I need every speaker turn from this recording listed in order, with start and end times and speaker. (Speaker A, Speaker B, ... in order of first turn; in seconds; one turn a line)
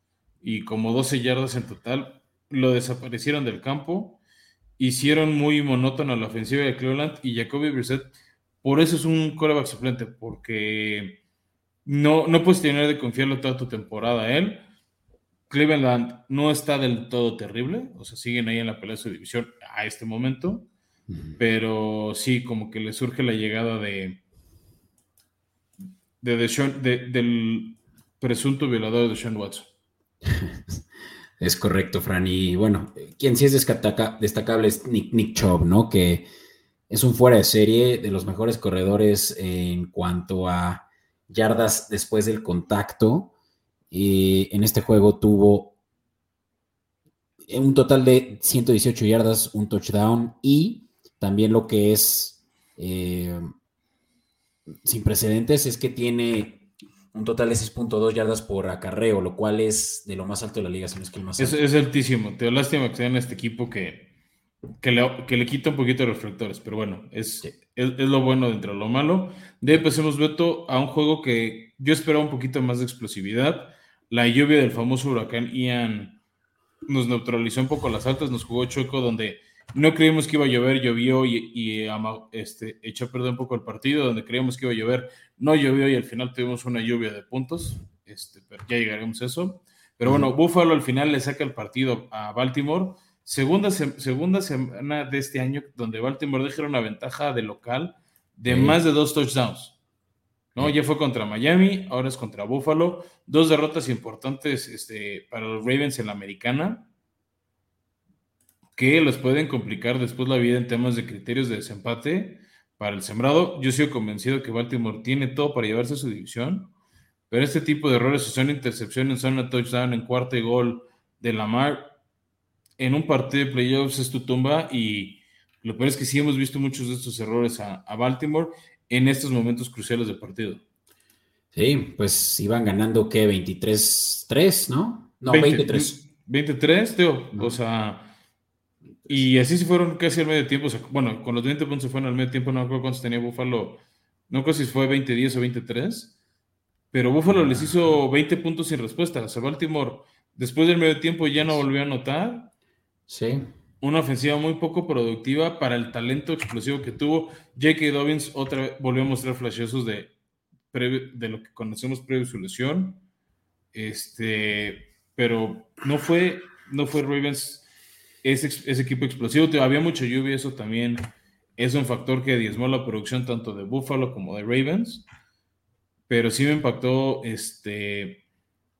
Speaker A: 0.4-4.2
Speaker A: 4.8-8.1
Speaker A: 8.6-11.2
Speaker A: 11.8-14.6
Speaker A: 15.5-20.7
Speaker B: 21.1-21.4
Speaker A: 21.4-24.2
Speaker A: 26.2-29.7
Speaker B: 30.2-30.8
Speaker B: 31.4-36.3
Speaker B: 36.9-43.3
Speaker B: 43.9-45.7
Speaker B: 47.5-53.4
Speaker B: 54.8-61.6
Speaker A: 61.4-64.1
Speaker A: 64.8-76.2
Speaker A: 76.9-99.7
Speaker B: 98.5-98.8
Speaker A: 100.5-106.8
Speaker A: 108.8-116.7
Speaker A: 117.3-121.9
Speaker A: 122.8-130.6
Speaker B: 131.5-136.0
Speaker A: 135.2-138.1
Speaker A: 139.1-146.1
Speaker A: 146.9-152.5
Speaker B: 147.3-147.7
Speaker B: 153.1-153.4
Speaker A: 153.8-160.1
Speaker A: 160.7-163.0
Speaker A: 163.7-167.7
Speaker A: 168.2-175.1
Speaker A: 176.1-178.2